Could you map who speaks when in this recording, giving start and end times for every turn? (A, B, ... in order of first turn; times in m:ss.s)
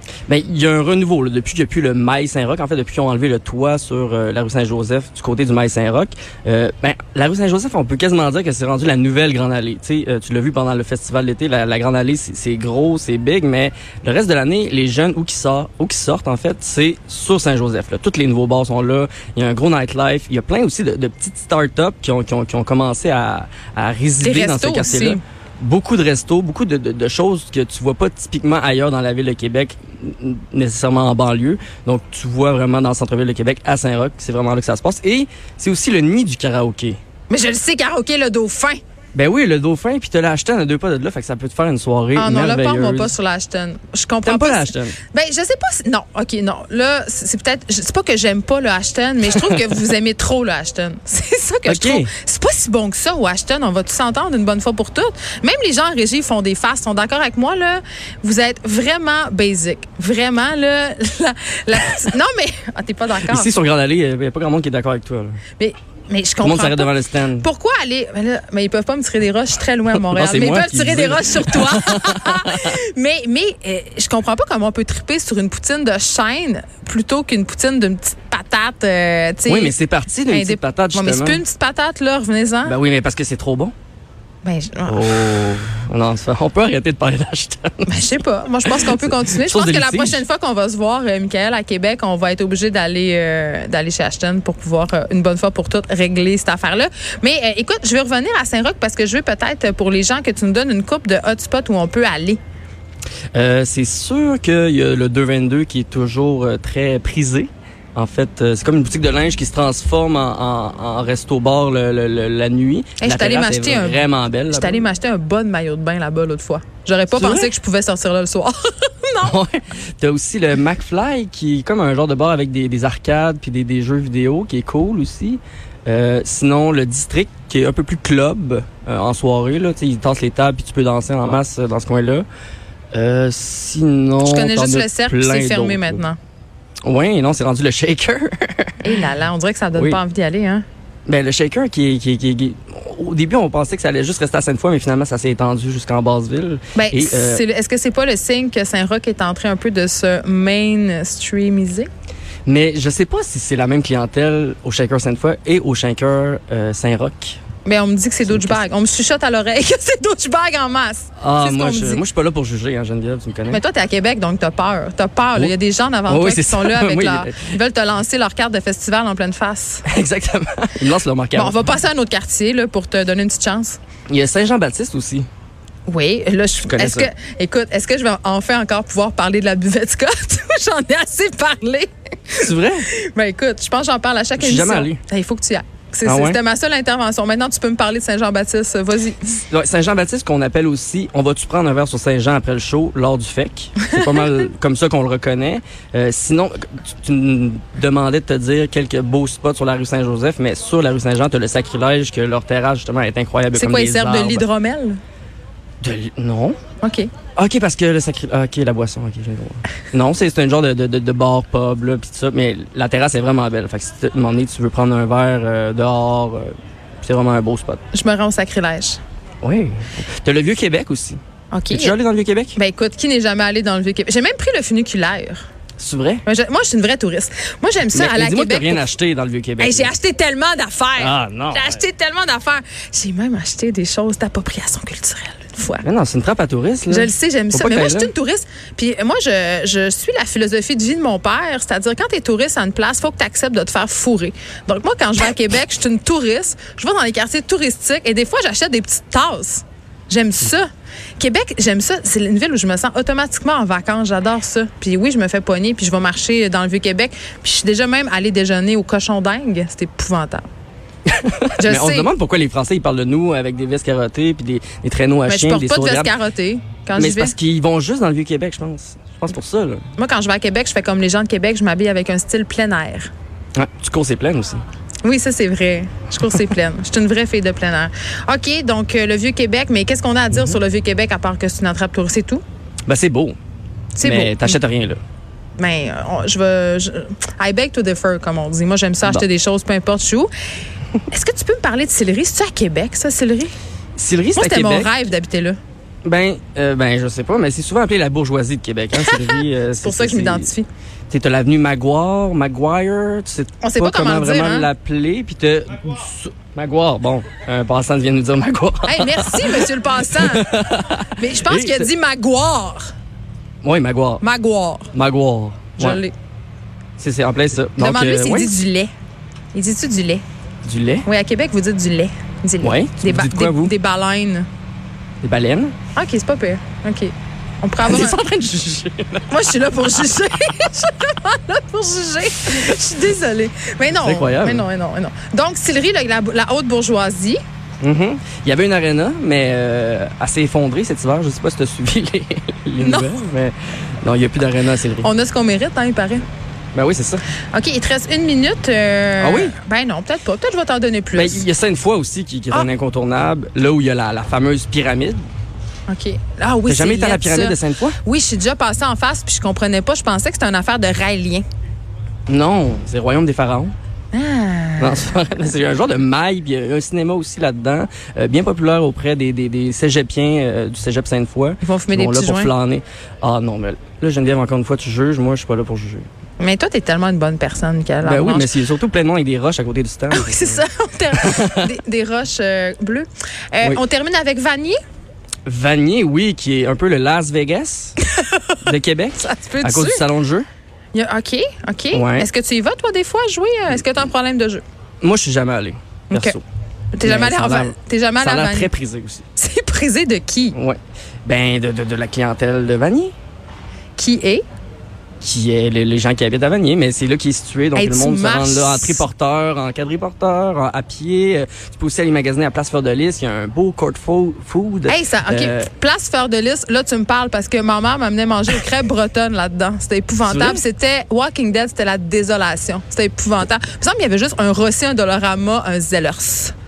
0:00.3-0:37.0 A
0:24.2-0:25.2 B
0:37.3-0:38.8 B
0:39.1-0:43.1 A
0:42.2-1:03.5 B
0:44.2-0:45.0 A
0:49.3-0:49.6 A
0:51.6-0:52.1 A
1:03.2-1:05.4 A
1:05.6-1:19.7 B
1:06.4-1:07.5 A
1:09.9-1:12.7 A
1:19.4-1:21.4 A
1:20.3-1:22.8 B
1:22.6-1:23.7 A
1:24.4-1:25.1 B
1:24.9-1:30.2 A
1:27.9-1:42.4 B
1:43.3-1:54.9 A
1:53.0-1:59.4 B
1:57.1-1:57.5 A
1:59.2-2:12.2 A
2:12.9-2:16.0 A
2:14.2-2:16.2 B
2:16.8-2:19.0 A
2:18.8-2:20.6 B
2:21.1-2:27.4 A
2:26.7-2:31.9 B
2:32.4-2:37.4 A
2:37.6-2:42.0 B
2:38.2-2:38.6 A
2:41.2-2:43.6 A
2:43.5-2:49.9 B
2:46.1-2:47.5 A
2:49.8-2:51.8 A
2:51.3-2:53.8 B
2:54.1-2:55.3 A
2:55.8-3:09.4 B
2:56.6-2:57.1 A
3:02.4-3:02.9 A
3:04.4-3:05.0 A
3:06.0-3:06.4 A
3:09.5-3:24.4 A
3:13.9-3:14.1 B
3:23.5-3:25.0 B
3:25.8-3:26.6 A
3:26.8-3:27.1 B
3:27.4-3:37.8 A
3:37.9-3:39.0 B
3:39.4-3:42.6 A
3:41.5-3:42.0 B
3:42.6-3:45.4 B
3:45.8-3:46.2 A
3:46.2-3:48.9 B
3:47.9-3:49.9 A
3:49.6-3:55.8 B
3:51.0-3:51.8 A
3:55.8-3:58.1 A
3:56.9-4:20.4 B
4:21.1-4:26.1 A
4:21.6-4:22.1 B
4:25.3-4:27.3 B
4:26.9-4:29.8 A
4:30.0-4:33.1 B
4:33.6-4:34.6 A
4:35.0-4:42.4 B
4:40.3-4:40.6 A
4:42.9-4:43.4 A
4:43.9-4:44.6 B
4:44.0-4:45.0 A
4:45.6-4:50.3 B
4:51.1-4:53.5 B
4:54.0-4:54.9 A
4:54.4-4:55.6 B
4:56.0-5:00.5 A
4:59.0-5:00.7 B
5:01.1-5:11.9 A
5:03.6-5:04.7 B
5:08.8-5:10.6 B
5:11.1-5:12.9 B
5:13.6-5:14.2 A
5:14.2-5:14.9 B
5:14.9-5:16.0 A
5:15.8-5:16.1 B
5:17.0-5:18.6 A
5:17.8-5:18.9 B
5:19.5-5:20.2 B
5:20.6-5:21.0 A
5:21.0-5:24.5 B
5:22.6-5:23.7 A
5:25.2-5:25.7 A
5:25.9-5:28.2 B
5:27.8-5:30.1 A
5:29.3-5:37.4 B
5:34.0-5:34.6 A
5:37.8-5:45.1 A
5:42.8-5:43.1 B
5:45.0-5:46.2 B
5:46.7-5:47.2 A
5:47.5-5:51.5 B
5:49.2-5:49.6 A
5:51.1-5:55.2 A
5:55.9-6:01.4 B
5:56.7-5:58.0 A
6:02.3-6:03.7 A
6:04.1-6:05.2 B
6:04.8-6:16.1 A
6:11.6-6:12.5 B
6:16.4-6:18.5 B
6:18.0-6:21.6 A
6:20.1-6:24.8 B
6:25.4-6:28.0 A
6:28.1-6:28.6 B
6:28.6-6:30.5 A
6:29.2-6:30.0 B
6:30.9-6:34.6 B
6:31.9-6:32.3 A
6:35.0-6:36.4 A
6:36.1-6:36.4 B
6:36.9-6:38.7 B
6:37.0-6:39.2 A
6:39.4-6:40.6 B
6:40.5-6:43.1 A
6:44.0-6:44.4 B
6:45.2-6:55.7 A
6:47.7-6:49.0 B
6:54.9-7:06.5 B
7:00.2-7:00.6 A